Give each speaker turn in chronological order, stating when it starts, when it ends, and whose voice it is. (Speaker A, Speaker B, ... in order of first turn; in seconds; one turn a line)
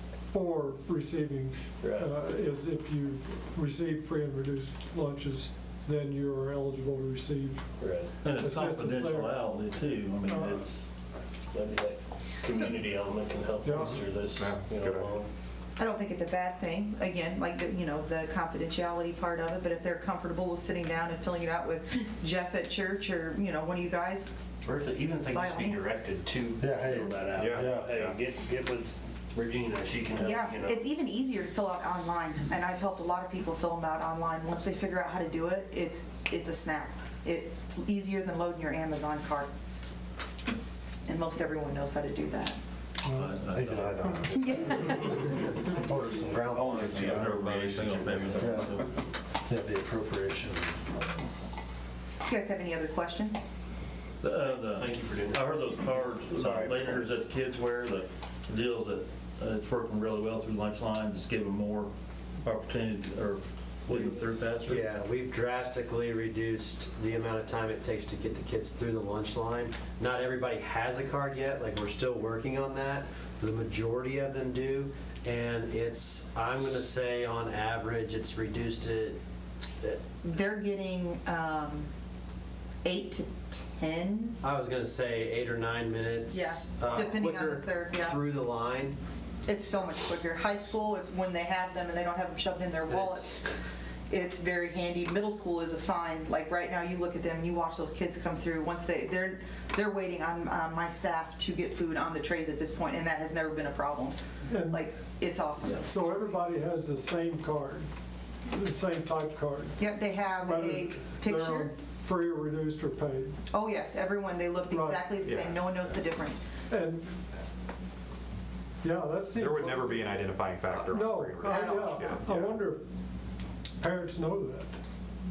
Speaker A: 0.3-7.7
Speaker B: 1.8-2.1
Speaker B: 7.8-8.2
Speaker C: 8.2-10.8
Speaker A: 8.2-9.5
Speaker A: 10.2-10.6
Speaker B: 11.5-15.3
Speaker A: 13.6-14.0
Speaker D: 14.4-15.2
Speaker E: 15.8-24.3
Speaker B: 24.6-30.8
Speaker E: 25.3-25.8
Speaker F: 26.6-28.1
Speaker D: 27.3-28.2
Speaker E: 30.2-39.5
Speaker E: 41.1-42.6
Speaker A: 43.0-43.4
Speaker C: 43.1-45.2
Speaker F: 43.5-48.8
Speaker E: 44.4-45.6
Speaker C: 45.9-48.9
Speaker F: 49.5-51.2
Speaker E: 52.2-53.4
Speaker C: 54.2-61.9
Speaker B: 54.3-57.0
Speaker F: 56.4-57.0
Speaker C: 62.4-64.8
Speaker G: 64.7-79.2
Speaker E: 80.2-81.9
Speaker E: 82.8-84.4
Speaker G: 84.4-89.0
Speaker E: 86.3-88.2
Speaker E: 89.5-93.4
Speaker G: 92.9-93.3
Speaker E: 94.1-106.1
Speaker A: 104.5-104.9
Speaker A: 105.8-107.9
Speaker A: 108.5-113.4
Speaker E: 109.8-111.7
Speaker E: 113.5-116.5
Speaker A: 114.7-115.1
Speaker D: 115.2-115.7
Speaker A: 116.7-117.2
Speaker A: 118.8-120.2
Speaker D: 119.3-122.6
Speaker A: 120.9-122.8
Speaker E: 121.5-122.2
Speaker A: 123.8-124.8